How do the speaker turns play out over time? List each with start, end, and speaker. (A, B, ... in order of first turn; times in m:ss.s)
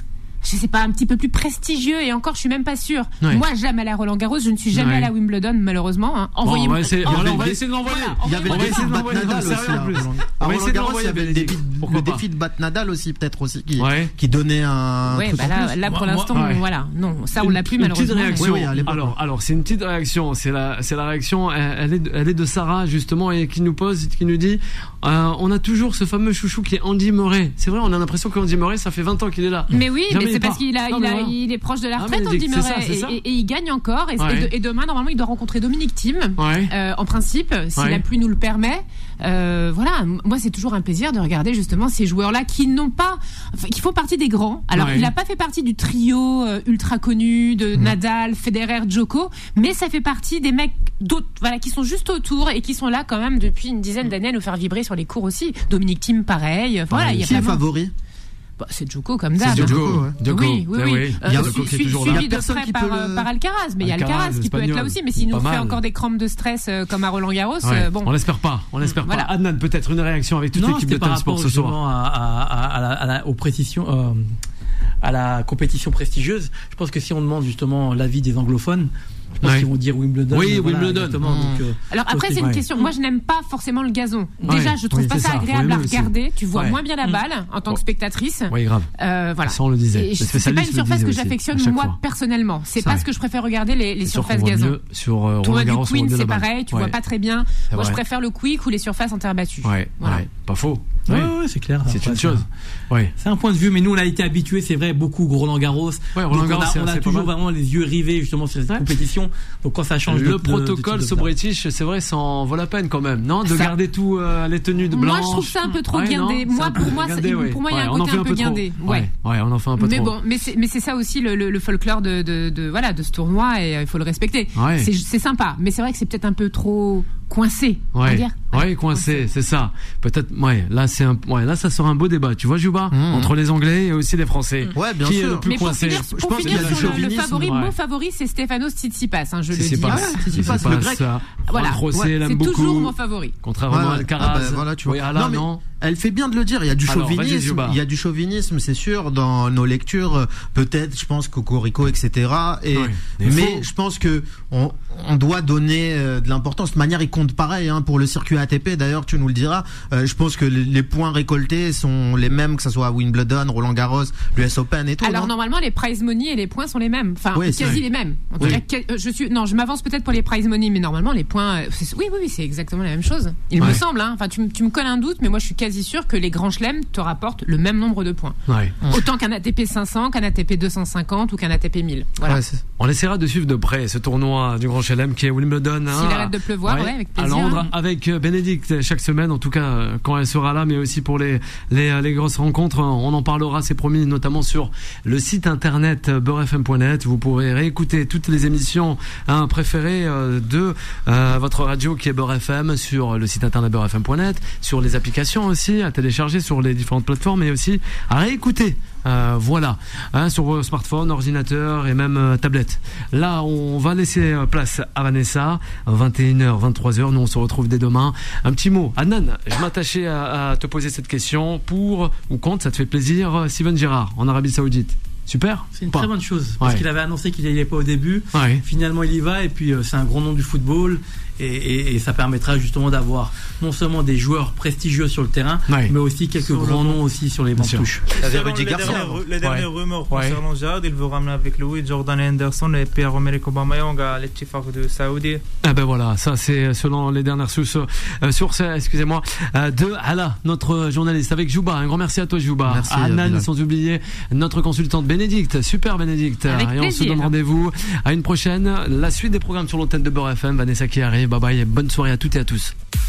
0:00.4-0:09.9 A
0:04.7-0:05.1 B
0:06.4-0:12.2 B
0:07.0-0:07.6 C
0:08.2-0:15.8 C
0:13.8-0:14.1 B
0:15.1-0:18.7 A
0:15.9-0:16.4 D
0:16.3-0:16.6 B
0:17.4-0:31.4 B
0:18.3-0:19.2 C
0:29.7-0:57.6 A
0:32.0-0:33.2 B
0:34.2-0:34.5 B
0:36.4-0:36.7 B
0:37.8-0:38.0 B
0:44.7-0:45.1 B
0:56.9-0:57.9 C
0:58.6-1:08.1 A
0:59.4-1:02.3 B
0:59.4-1:00.2 C
1:01.2-1:03.3 C
1:03.8-1:05.8 B
1:07.6-1:11.8 B
1:09.0-1:09.3 A
1:10.5-1:14.3 D
1:15.0-1:18.9 D
1:19.4-1:19.7 B
1:19.4-1:22.9 D
1:20.3-1:21.2 B
1:21.2-1:21.6 C
1:21.9-1:34.8 A
1:22.4-1:22.6 B
1:24.4-1:24.7 D
1:24.5-1:26.8 B
1:28.5-1:28.9 B
1:29.4-1:32.0 B
1:32.8-1:33.0 B
1:34.1-1:37.0 B
1:35.4-1:40.2 A
1:37.7-1:38.0 B
1:39.6-1:41.3 B
1:41.1-1:42.5 D
1:41.9-1:43.1 B
1:43.2-1:51.3 D
1:46.2-1:47.3 B
1:50.1-2:00.1 B
1:53.4-1:53.7 A
1:54.9-1:59.1 A
1:59.8-2:09.3 A
2:04.6-2:04.9 B
2:07.9-2:17.7 B
2:12.9-2:13.3 C
2:14.8-2:17.5 C
2:15.4-2:20.6 A
2:19.5-2:25.6 B
2:19.6-2:21.1 C
2:21.5-2:23.4 A
2:23.7-2:45.3 C
2:26.9-2:27.8 B
2:32.7-2:33.6 B
2:45.0-3:02.4 A
2:47.3-2:47.8 C
2:58.5-2:58.8 B
3:02.2-3:02.6 C
3:02.8-3:46.1 B
3:05.9-3:07.7 A
3:45.8-3:58.1 D
3:48.3-3:48.6 B
3:56.4-3:57.0 E
3:57.6-4:00.4 B
3:58.2-3:59.2 C
3:58.2-4:05.4 E
4:05.6-4:22.7 B
4:12.6-4:13.5 C
4:16.5-4:17.3 A